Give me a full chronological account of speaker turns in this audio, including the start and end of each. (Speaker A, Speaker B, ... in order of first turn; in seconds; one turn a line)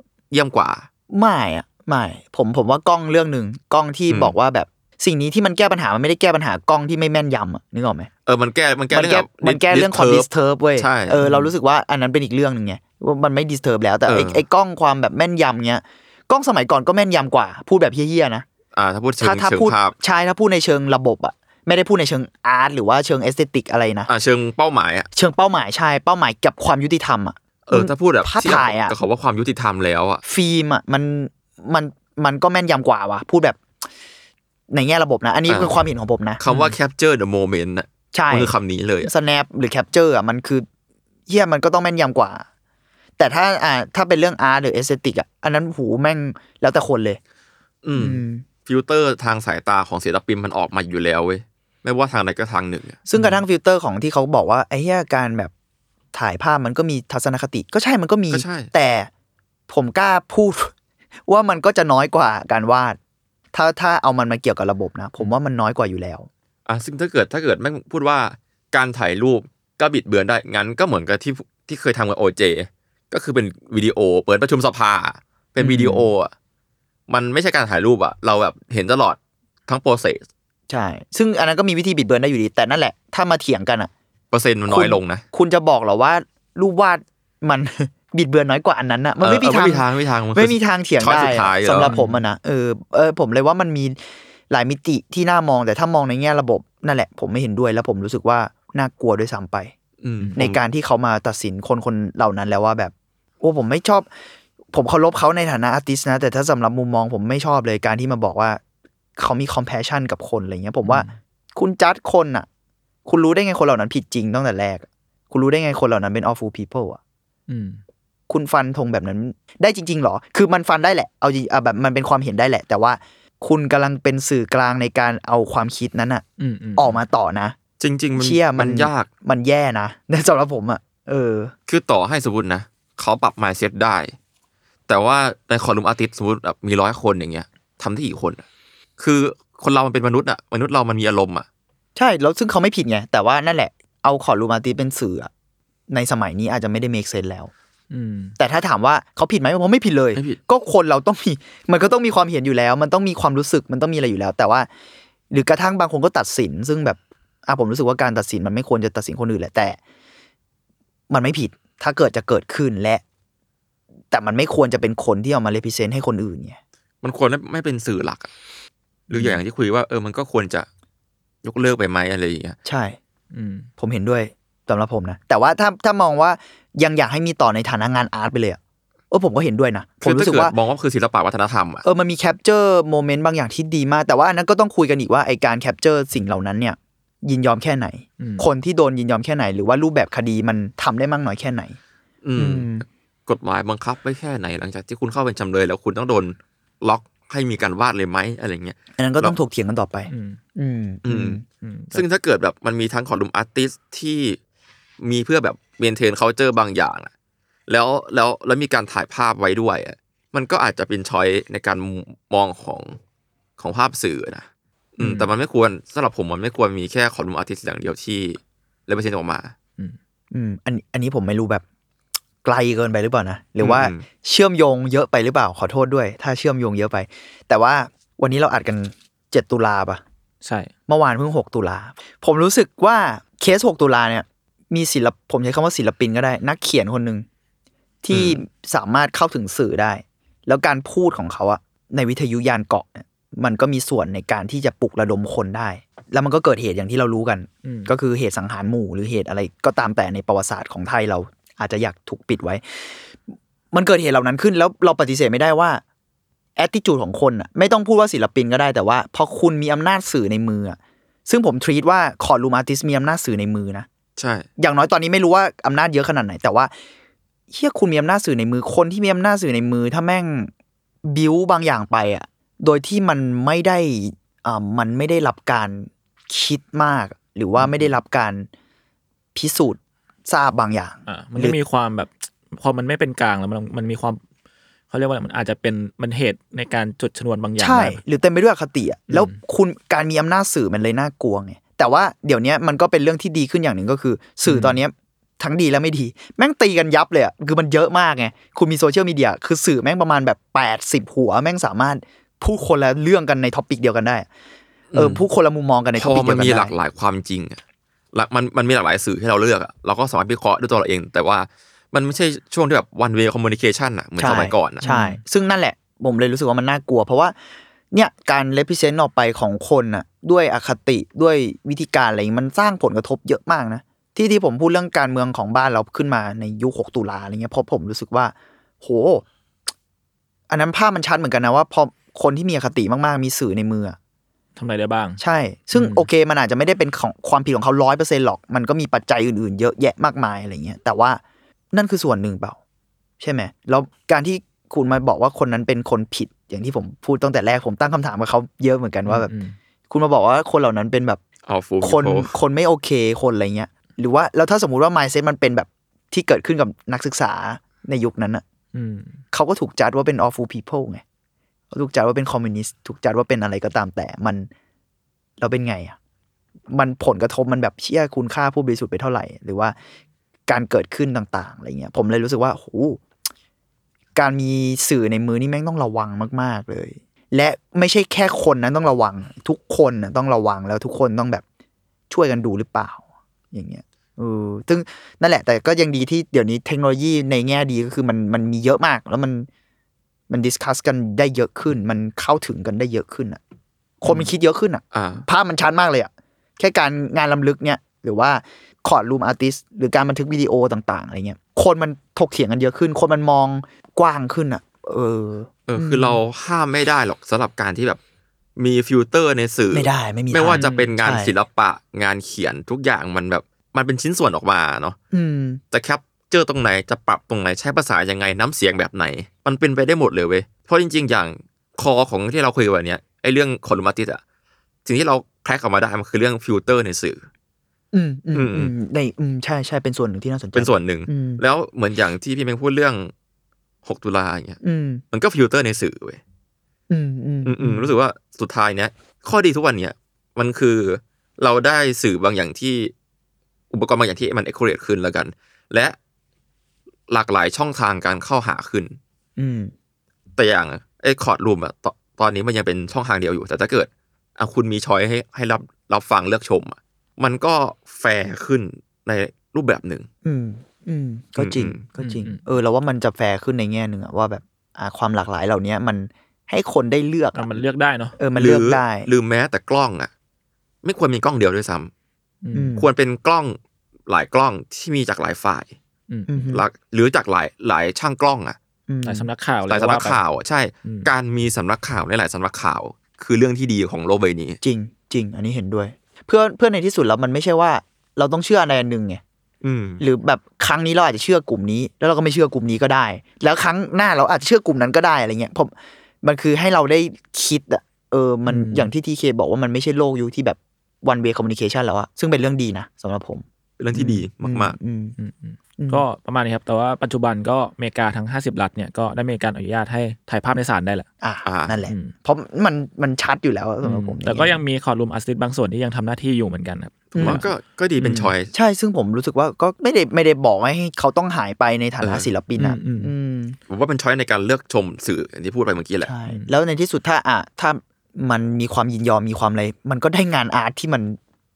Speaker A: 0.3-0.9
Speaker B: 1.1-8.1
Speaker A: 4.1-4.3
Speaker A: 8.2-11.2
Speaker B: 8.9-18.4
Speaker A: 14.1-14.4
Speaker A: 18.7-19.9
Speaker B: 19.2-24.1
Speaker A: 24.1-25.1
Speaker B: 25.1-28.9
Speaker A: 27.7-30.2
Speaker B: 30.2-33.6
Speaker B: 34.7-36.4
Speaker A: 35.5-35.7
Speaker A: 36.4-39.1
Speaker C: 36.5-36.7
Speaker B: 38.1-40.6
Speaker B: 41.3-42.4
Speaker B: 43.2-47.2
Speaker A: 47.8-53.0
Speaker B: 48.0-48.4
Speaker B: 53.1-55.5
Speaker B: 56.1-59.1
Speaker A: 58.3-58.7
Speaker B: 59.7-60.7
Speaker B: 61.3-63.0
Speaker B: 63.5-66.3
Speaker A: 66.7-76.3
Speaker B: 75.6-76.1
Speaker A: 77.1-80.2
Speaker B: 80.7-83.9
Speaker A: 84.3-85.2
Speaker B: 84.7-94.0
Speaker A: 89.2-91.9
Speaker C: 91.8-92.2
Speaker B: 94.5-99.7
Speaker A: 100.0-100.6
Speaker B: 100.4-104.1
Speaker B: 104.7-108.6
Speaker B: 109.2-112.5
Speaker C: 110.8-111.1
Speaker B: 113.0-117.0
Speaker C: 117.5-117.8
Speaker B: 118.3-126.2
Speaker C: 126.4-127.0
Speaker B: 126.8-127.5
Speaker A: 127.8-129.1
Speaker B: 128.2-131.5
Speaker A: 131.7-134.1
Speaker A: 134.9-138.4
Speaker A: 139.0-141.4
Speaker B: 141.9-145.3
Speaker B: 145.9-147.5
Speaker C: 147.9-148.3
Speaker B: 148.4-154.7
Speaker B: 155.3-159.8
Speaker B: 161.1-163.0
Speaker B: 164.1-166.6
Speaker A: 167.0-168.3
Speaker A: 169.1-170.7
Speaker A: 171.4-172.6
Speaker B: 172.6-173.0
Speaker C: 173.3-173.7
Speaker B: 173.8-178.6
Speaker B: 179.1-180.5
Speaker A: 180.0-181.8
Speaker B: 181.8-191.8
Speaker C: 188.2-188.5
Speaker A: 192.2-199.3
Speaker B: 192.4-192.8
Speaker B: 199.0-201.4
Speaker C: 200.1-200.4
Speaker A: 201.0-201.4
Speaker C: 201.6-202.0
Speaker A: 201.9-204.4
Speaker A: 205.0-207.1
Speaker A: 207.7-213.0
Speaker A: 213.6-219.5
Speaker C: 215.0-215.3
Speaker B: 220.3-221.6
Speaker B: 222.4-230.0
Speaker A: 223.6-224.0
Speaker C: 230.4-230.7
Speaker B: 230.9-237.2
Speaker B: 238.0-253.0
Speaker A: 238.1-238.4
Speaker C: 247.6-247.9
Speaker B: 253.7-255.8
Speaker B: 256.6-263.9
Speaker A: 264.2-264.5
Speaker B: 264.6-266.7
Speaker B: 267.5-270.5
Speaker B: 271.0-278.5
Speaker C: 277.6-277.9
Speaker B: 279.3-281.6
Speaker C: 281.1-284.2
Speaker C: 284.9-288.0
Speaker B: 287.6-304.3
Speaker C: 289.1-289.4
Speaker C: 294.5-294.8
Speaker A: 304.9-305.2
Speaker B: 304.9-306.7
Speaker A: 305.9-307.6
Speaker A: 308.1-314.8
Speaker B: 314.2-317.3
Speaker C: 314.8-315.2
Speaker B: 317.9-329.2
Speaker B: 330.5-334.0
Speaker C: 334.6-335.2
Speaker B: 335.2-341.2
Speaker C: 335.7-336.1
Speaker B: 341.7-342.6
Speaker B: 343.2-349.3
Speaker C: 349.1-349.6
Speaker B: 349.9-351.2
Speaker A: 351.5-352.3
Speaker B: 351.8-358.4
Speaker C: 358.7-359.2
Speaker B: 359.3-361.0
Speaker B: 361.7-364.5
Speaker B: 365.4-365.9
Speaker B: 366.7-369.7
Speaker B: 370.5-373.0
Speaker B: 374.1-381.4
Speaker B: 382.1-389.5
Speaker B: 390.3-393.4
Speaker B: 394.0-406.2
Speaker A: 394.9-395.2
Speaker A: 405.7-408.0
Speaker A: 408.6-415.0
Speaker B: 409.7-411.3
Speaker C: 410.5-410.9
Speaker B: 415.1-415.6
Speaker A: 415.7-424.2
Speaker A: 424.8-427.3
Speaker B: 427.9-431.4
Speaker A: 428.3-428.7
Speaker A: 430.5-433.1
Speaker A: 433.8-434.6
Speaker B: 434.6-435.0
Speaker A: 435.1-436.2
Speaker B: 436.9-437.9
Speaker A: 437.4-442.9
Speaker A: 443.7-445.9
Speaker A: 447.1-449.0
Speaker B: 449.4-449.7
Speaker A: 450.4-460.1
Speaker B: 460.2-467.5
Speaker A: 461.4-461.8
Speaker C: 462.0-462.4
Speaker C: 467.3-468.1
Speaker B: 468.2-469.1
Speaker A: 468.4-470.1
Speaker A: 470.8-471.9
Speaker C: 472.4-472.8
Speaker B: 472.5-472.9
Speaker A: 472.8-473.6
Speaker A: 474.1-475.7
Speaker B: 476.3-476.6
Speaker A: 476.4-478.6
Speaker B: 478.9-479.3
Speaker C: 479.0-480.2
Speaker A: 479.7-484.6
Speaker B: 484.6-489.2
Speaker A: 489.6-490.0
Speaker B: 490.0-505.2
Speaker C: 498.5-498.9
Speaker A: 503.8-504.8
Speaker C: 505.2-511.1
Speaker B: 505.8-506.0
Speaker B: 511.2-514.6
Speaker A: 511.4-511.8
Speaker C: 511.9-512.1
Speaker C: 513.8-517.5
Speaker A: 517.1-518.5
Speaker B: 517.1-517.4
Speaker C: 518.0-518.3
Speaker B: 518.0-523.6
Speaker A: 522.0-522.3
Speaker C: 522.6-523.1
Speaker A: 523.7-526.1
Speaker B: 526.0-531.2